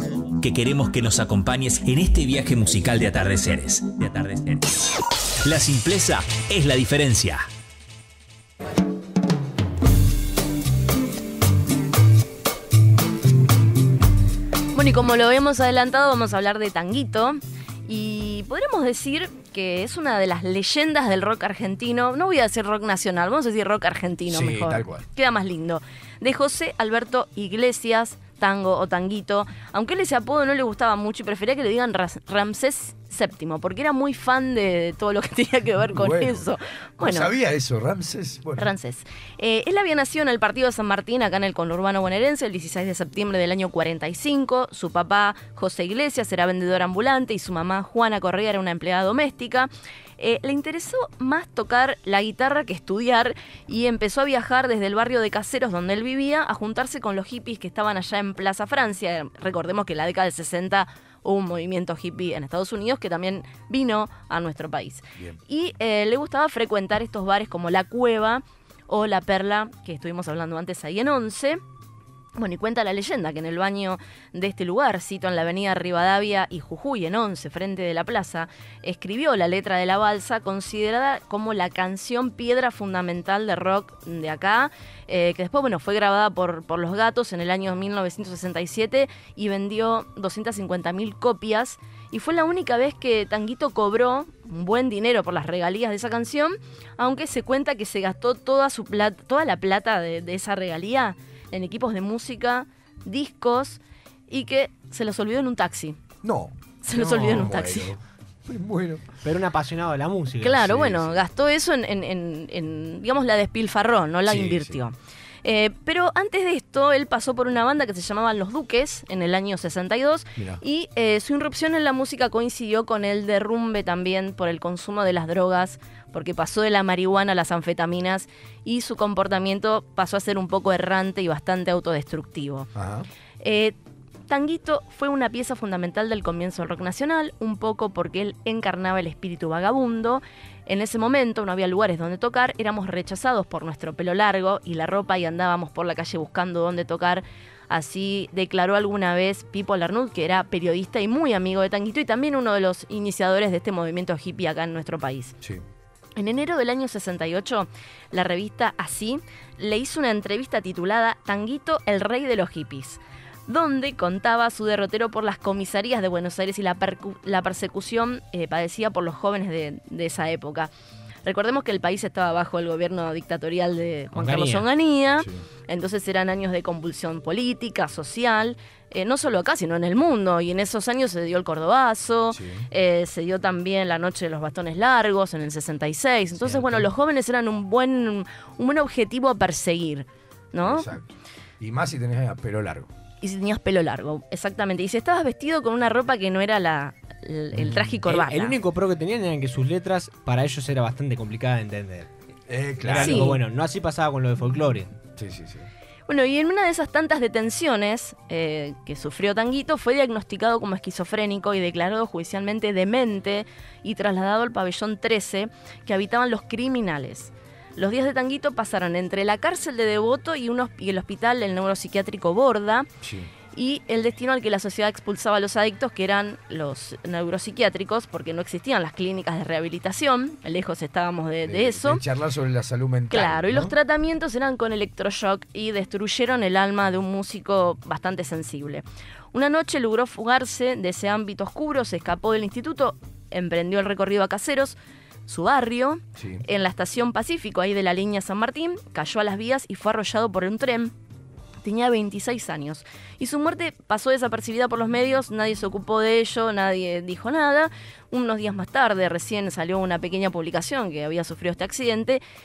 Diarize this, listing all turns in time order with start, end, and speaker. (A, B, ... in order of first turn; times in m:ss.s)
0:00.4-0:04.6 A
0:05.4-0:07.4 A
0:14.7-0:37.3 B
0:24.2-0:25.0 C
0:35.9-0:36.4 C
0:37.0-0:38.7 C
0:38.6-1:11.6 B
1:12.4-1:46.0 B
1:46.2-1:49.2 C
1:46.8-1:47.9 B
1:49.2-1:50.9 D
1:50.4-2:12.7 B
1:50.6-1:51.2 C
1:54.2-1:54.8 C
2:00.4-2:00.6 C
2:12.7-2:13.1 C
2:13.4-2:13.8 B
2:14.3-2:35.4 B
2:36.2-2:50.7 B
2:51.2-3:10.9 B
2:54.1-2:54.6 D
3:02.3-3:02.7 C
3:06.4-3:06.9 C
3:10.6-3:11.1 C
3:11.6-3:12.9 C
3:13.2-3:18.6 B
3:17.5-3:18.0 C
3:18.0-3:22.1 D
3:22.5-3:23.3 C
3:22.8-3:24.9 D
3:22.9-3:23.4 B
3:25.2-3:25.7 C
3:26.1-3:42.9 B
3:43.0-3:43.3 C
3:43.5-3:52.0 B
3:51.4-3:53.7 C
3:53.1-4:10.9 B
4:06.2-4:06.4 C
4:11.6-4:22.2 B